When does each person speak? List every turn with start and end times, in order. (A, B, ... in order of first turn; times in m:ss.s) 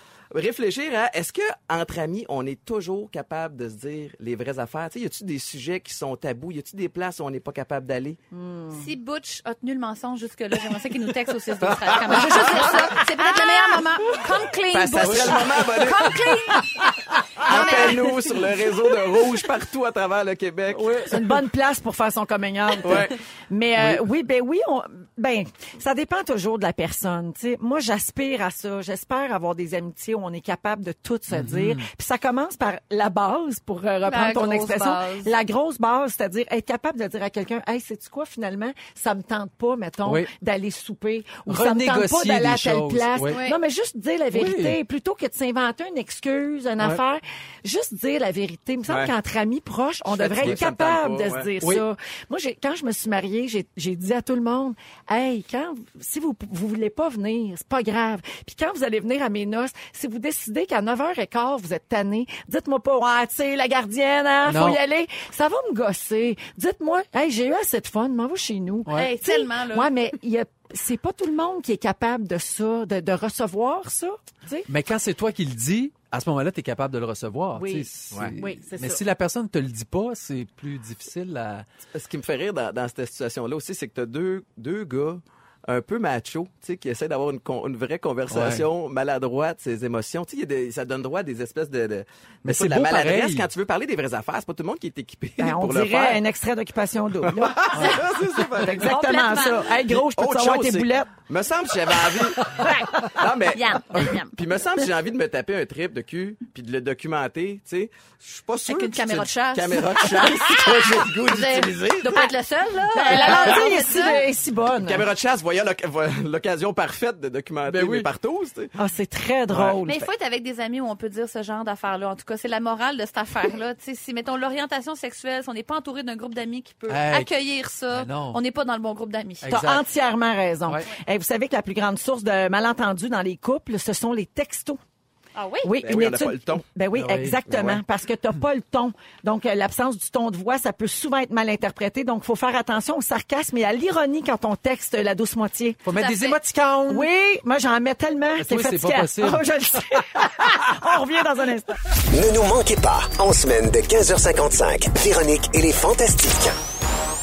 0:00.3-0:08.2 A
0:08.3-0:08.9 B
0:08.7-0:16.8 C
0:12.5-0:13.4 B
0:14.7-0:16.3 A
0:15.0-0:15.6 D
0:17.4-0:21.1 A
0:17.4-0:18.4 C
0:17.5-0:18.1 B
0:20.7-0:21.4 D
0:21.1-1:14.7 B
0:22.8-0:23.2 A
0:23.8-0:24.0 D
0:31.3-0:31.9 D
0:34.0-0:35.3 C
0:40.0-0:40.3 D
0:41.5-0:43.4 D
0:43.2-0:43.6 C
0:44.3-0:44.8 D
0:48.9-0:49.1 A
0:50.1-0:51.5 A
1:04.4-1:04.8 D
1:08.9-1:09.1 D
1:08.9-1:09.9 C
1:14.7-1:21.7 D
1:17.5-1:19.0 B
1:21.9-1:36.2 A
1:28.3-1:28.7 D
1:32.4-1:33.5 D
1:35.4-1:41.1 B
1:37.3-1:39.0 A
1:38.7-1:39.8 C
1:39.9-1:52.3 A
1:42.0-1:42.9 B
1:43.5-1:44.4 C
1:48.7-1:54.2 C
1:53.0-1:55.1 B
1:53.1-1:53.7 A
1:54.8-1:58.7 A
1:57.7-1:58.1 D
1:58.8-2:00.0 B
1:59.5-1:59.8 A
1:59.9-2:09.6 C
2:06.9-2:07.3 D
2:07.9-2:08.4 D
2:09.4-2:09.9 D
2:09.5-2:14.8 B
2:15.4-2:15.7 C
2:15.6-2:25.9 B
2:15.8-2:16.6 A
2:16.9-2:17.6 D
2:17.5-2:17.8 A
2:25.8-2:27.1 D
2:26.0-2:26.4 C
2:26.9-2:31.9 B
2:28.4-2:30.2 D
2:32.1-2:36.6 E